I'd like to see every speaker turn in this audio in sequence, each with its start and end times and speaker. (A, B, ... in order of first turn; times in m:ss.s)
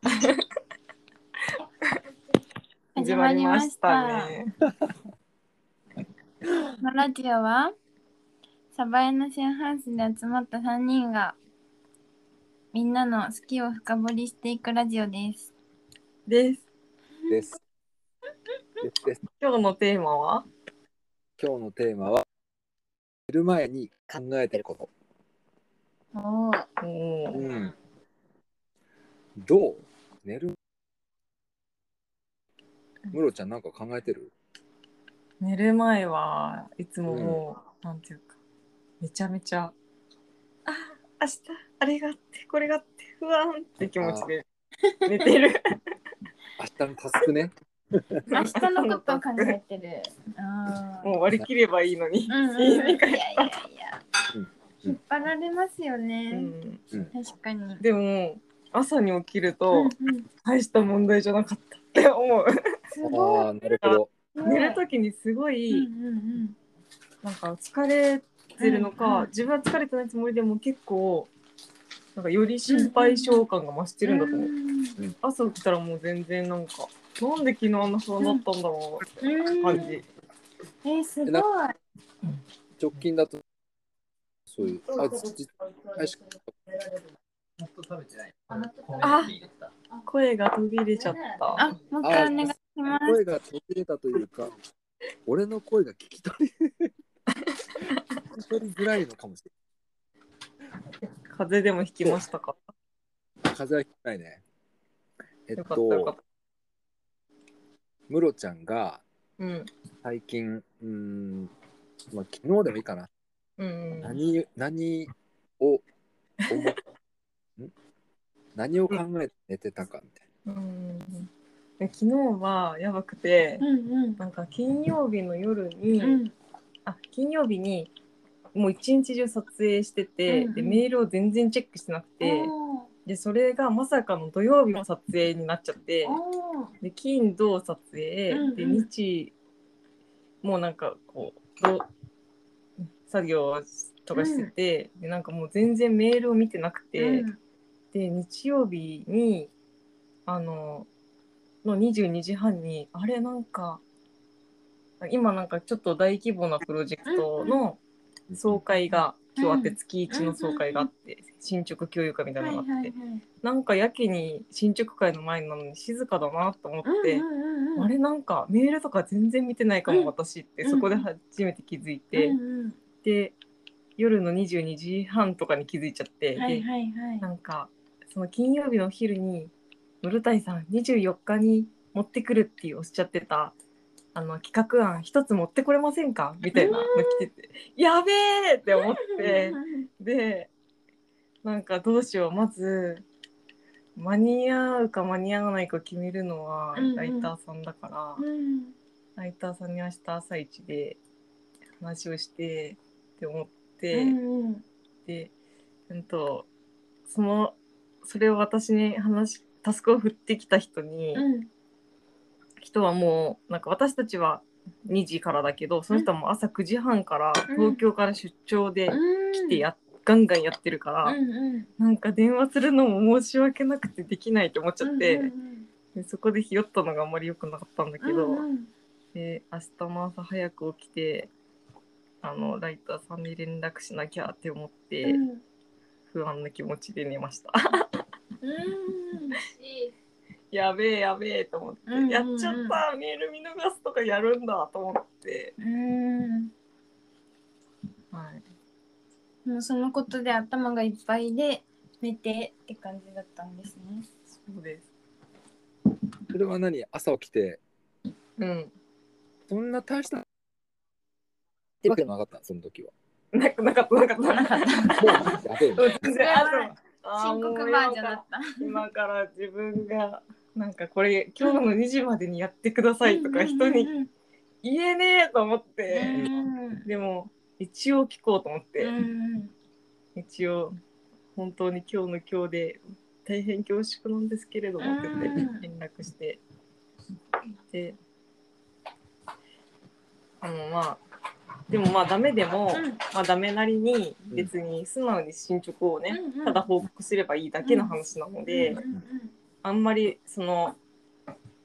0:02.9-0:04.3 A
0:03.0-0:04.5 B
0:06.8-0:07.7 A
0:08.7-0:11.4 A
0:12.7-0:15.5 A
0:16.3-0:16.6 B
0:17.2-0:17.6 A
0:17.3-0:17.6 C
0:18.8-0:19.2 C
0:19.4-0:20.4 B
0:21.4-0:22.2 C
0:23.3-0:24.9 C
0:26.1-0:26.7 A
0:26.8-0:27.5 B
0:27.3-0:27.7 C
0:29.4-0:30.6 C
0:33.1-0:34.3 C
0:35.4-0:38.4 B
0:37.1-0:37.4 C
0:39.0-0:39.7 B
0:40.7-0:44.4 B
0:44.0-0:44.3 C
0:44.8-0:45.3 A
0:45.0-0:45.8 B
0:46.6-0:48.2 C
0:48.3-0:49.6 B
0:48.3-0:51.1 A
0:51.0-0:53.5 B
0:52.3-0:54.0 A
0:54.3-0:55.0 C
0:54.8-0:56.5 A
0:56.3-0:56.8 B
0:57.1-0:57.8 A
0:57.8-1:02.5 B
0:59.7-1:00.3 A
1:02.9-1:03.5 A
1:03.0-1:04.1 C
1:03.8-1:05.9 B
1:04.3-1:04.8 A
1:05.7-1:06.6 A
1:07.2-1:11.3 B
1:08.6-1:09.3 A
1:12.2-1:14.5 B
1:12.7-1:13.4 A
1:14.0-1:15.0 A
1:15.2-1:20.0 B
1:19.2-1:20.0 A
1:20.8-1:21.7 A
1:22.8-1:23.4 C
1:24.5-1:26.2 C
1:27.6-1:29.2 C
1:29.0-1:29.4 B
1:30.0-1:31.6 B
1:31.6-1:33.2 A
1:32.0-1:34.6 C
1:35.2-1:36.9 C
1:37.3-1:38.0 B
1:38.3-1:39.5 C
1:41.3-1:42.6 B
1:43.4-1:44.4 C
1:45.5-1:46.1 C
1:45.6-1:46.2 B
1:48.1-1:49.0 C
1:49.4-1:49.7 B
1:50.0-1:51.5 C
1:52.1-1:53.1 C
1:53.6-1:54.2 B
1:54.0-1:55.8 C
1:56.5-1:56.7 B
1:56.5-1:56.8 C
1:58.6-2:00.2 C
2:00.4-2:03.6 B
2:03.6-2:04.2 A
2:04.2-2:06.2 B
2:06.0-2:06.3 A
2:06.8-2:07.9 B
2:08.5-2:12.5 B
2:10.3-2:10.8 A
2:12.2-2:12.9 A
2:13.0-2:16.2 B
2:16.0-2:16.7 A
2:16.8-2:19.3 B
2:18.3-2:18.9 A
2:20.4-2:21.9 B
2:23.0-2:27.3 B
2:24.1-2:24.5 A
2:27.0-2:27.4 A
2:27.9-2:29.5 B
2:30.3-2:30.9 B
2:31.6-2:33.8 B
2:35.0-2:37.8 B
2:37.0-2:37.6 A
2:38.3-2:38.6 C
2:38.4-2:47.2 B
2:39.4-2:40.9 A
2:42.4-2:43.2 A
2:46.8-2:47.9 A
2:47.8-2:52.4 B
2:50.6-2:51.0 A
2:52.1-2:52.8 A
2:53.0-2:53.3 B
2:54.0-2:56.7 B
2:56.4-2:57.2 A
2:57.2-3:03.5 B
3:04.1-3:10.5 B
3:06.5-3:07.3 A
3:08.7-3:09.8 A
3:11.4-3:13.0 B
3:14.0-3:18.2 B
3:16.7-3:17.3 A
3:18.2-3:18.7 A
3:19.2-3:21.0 B
3:21.8-3:24.2 B
3:23.9-3:24.6 A
3:25.0-3:25.3 B
3:25.9-3:26.5 B
3:27.1-3:31.2 B
3:31.1-3:31.5 A
3:32.6-3:41.2 B
3:37.5-3:37.8 A
3:38.9-3:39.6 A
3:41.0-3:41.7 A
3:41.8-3:45.3 B
3:44.8-3:45.7 A
3:45.9-3:48.4 B
3:48.0-3:48.7 A
3:49.1-3:51.3 B
3:52.2-3:55.2 B
3:55.0-3:55.4 A
3:56.1-3:57.9 B
3:58.4-3:59.9 A
4:00.5-4:05.5 B
4:01.9-4:02.8 A
4:05.6-4:06.5 A
4:08.1-4:08.4 B
4:09.4-4:14.0 A
4:14.4-4:14.9 B
4:16.3-4:17.6 C
4:18.4-4:18.7 B
4:19.5-4:20.2 C
4:21.8-4:22.9 C
4:23.3-4:33.9 B
4:24.3-4:28.8 A
4:25.0-4:25.8 C
4:33.0-4:34.1 A
4:34.6-4:36.3 B
4:35.9-4:36.9 A
4:36.8-4:38.9 B
4:38.8-4:39.5 A
4:40.2-4:40.8 B
4:41.3-4:46.4 B
4:44.8-4:45.6 A
4:47.7-4:48.0 B
4:50.4-4:51.0 B
4:51.7-4:58.8 B
4:52.7-4:53.0 A
4:56.1-4:56.6 A
4:57.6-4:59.3 A
4:59.6-5:00.8 B